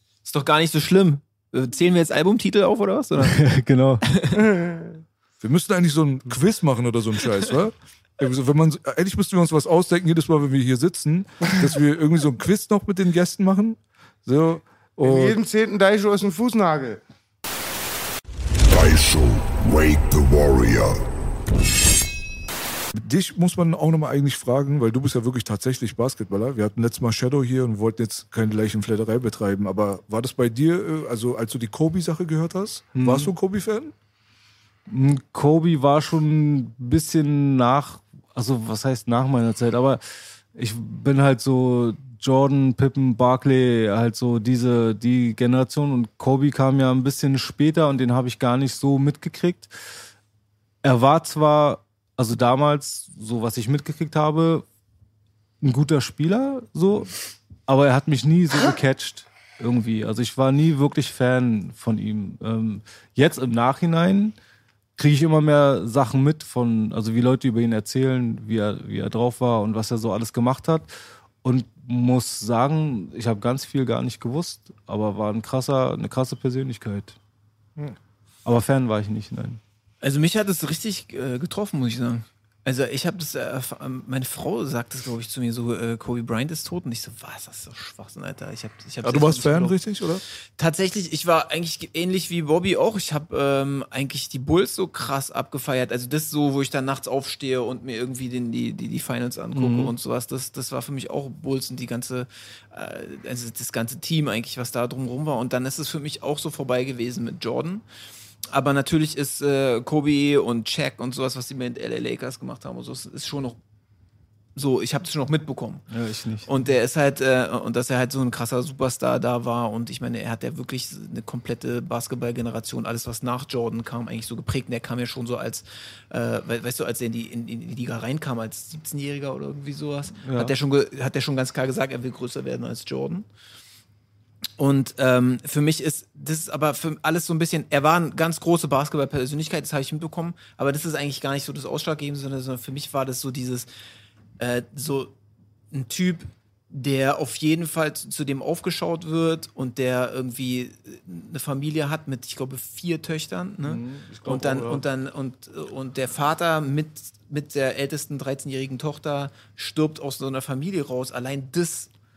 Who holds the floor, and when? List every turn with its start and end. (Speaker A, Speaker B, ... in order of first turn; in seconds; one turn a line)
Speaker A: 0.2-3.4
Speaker B: 3.2-4.1
Speaker A: 4.1-4.4
Speaker C: 4.5-4.9
Speaker D: 5.4-15.4
Speaker C: 15.0-17.0
Speaker E: 18.6-21.0
Speaker D: 22.9-33.9
Speaker B: 32.9-33.3
Speaker B: 34.9-49.7
Speaker B: 50.8-54.6
Speaker B: 55.6-57.1
Speaker B: 57.7-64.3
Speaker B: 65.0-70.9
Speaker B: 71.4-77.2
Speaker B: 78.4-79.6
Speaker A: 80.0-89.8
Speaker D: 89.0-90.2
Speaker A: 90.6-107.8
Speaker B: 99.5-99.9
Speaker A: 108.5-113.6
Speaker A: 114.5-115.8
Speaker B: 115.9-116.5
Speaker A: 116.5-133.2
Speaker B: 130.2-130.5
Speaker A: 134.6-143.7
Speaker A: 144.4-145.1
Speaker A: 145.7-161.9
Speaker B: 153.6-154.8